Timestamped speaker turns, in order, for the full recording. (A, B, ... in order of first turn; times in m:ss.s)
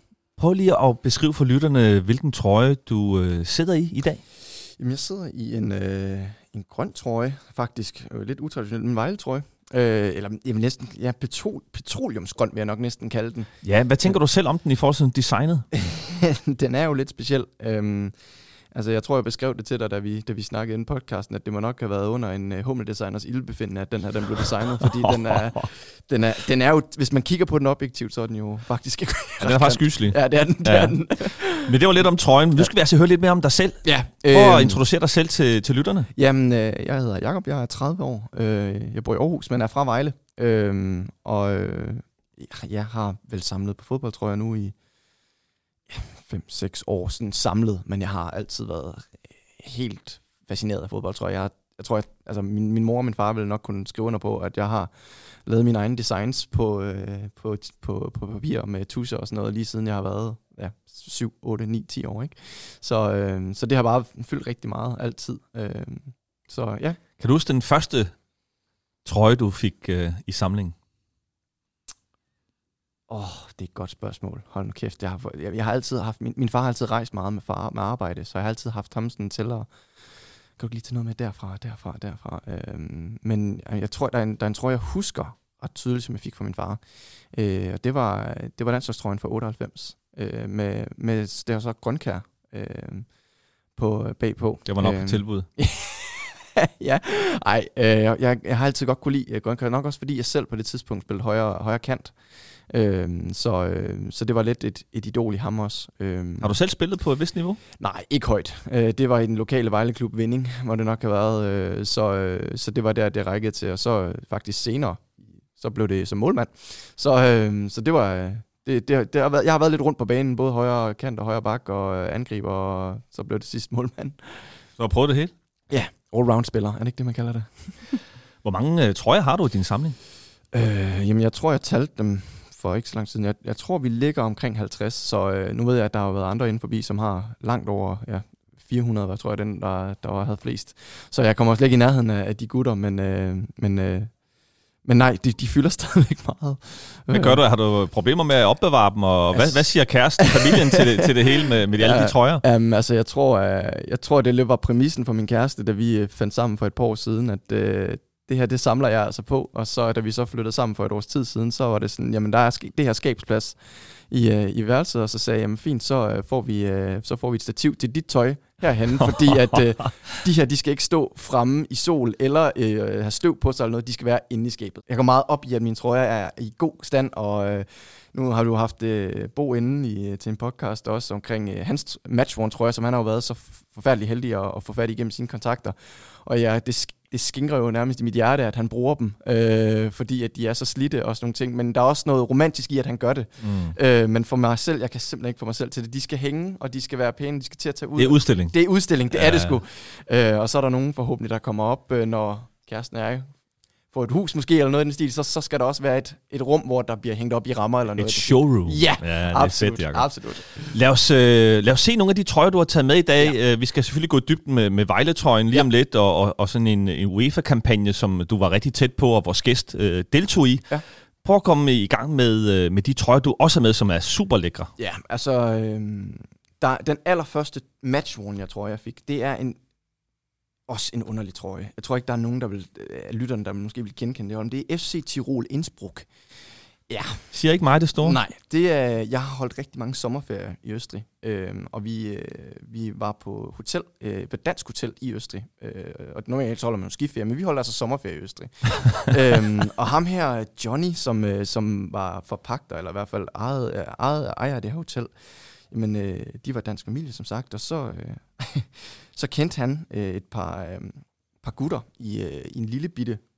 0:00.4-0:04.2 A
0:04.8-0:13.5 B
0:13.6-0:15.7 A
0:15.7-0:18.2 B
0:18.7-0:31.8 B
0:24.8-0:25.7 A
0:29.4-0:36.1 A
0:33.8-0:34.8 B
0:36.2-0:44.8 B
0:45.9-1:07.0 B
1:07.2-1:08.1 A
1:09.0-1:10.7 A
1:13.1-1:19.7 B
1:20.6-1:26.8 B
1:27.3-1:33.1 B
1:33.8-1:46.6 B
1:34.7-1:35.5 A
1:46.4-1:47.6 A
1:47.8-2:04.6 B
2:04.8-2:05.3 A
2:05.7-2:08.0 B
2:08.4-2:10.0 A
2:10.5-2:24.1 B
2:24.8-2:27.4 B
2:27.1-2:32.4 A
2:29.3-2:29.6 B
2:30.2-2:31.0 B
2:31.8-3:23.3 B
3:13.4-3:13.8 A
3:18.0-3:18.6 A
3:19.1-3:19.6 A
3:23.9-3:30.8 B
3:28.0-3:40.7 A
3:41.2-3:44.7 A
3:44.8-3:49.6 B
3:50.7-3:56.1 B
3:56.9-3:57.2 B
3:57.3-3:58.2 A
3:58.0-4:23.2 B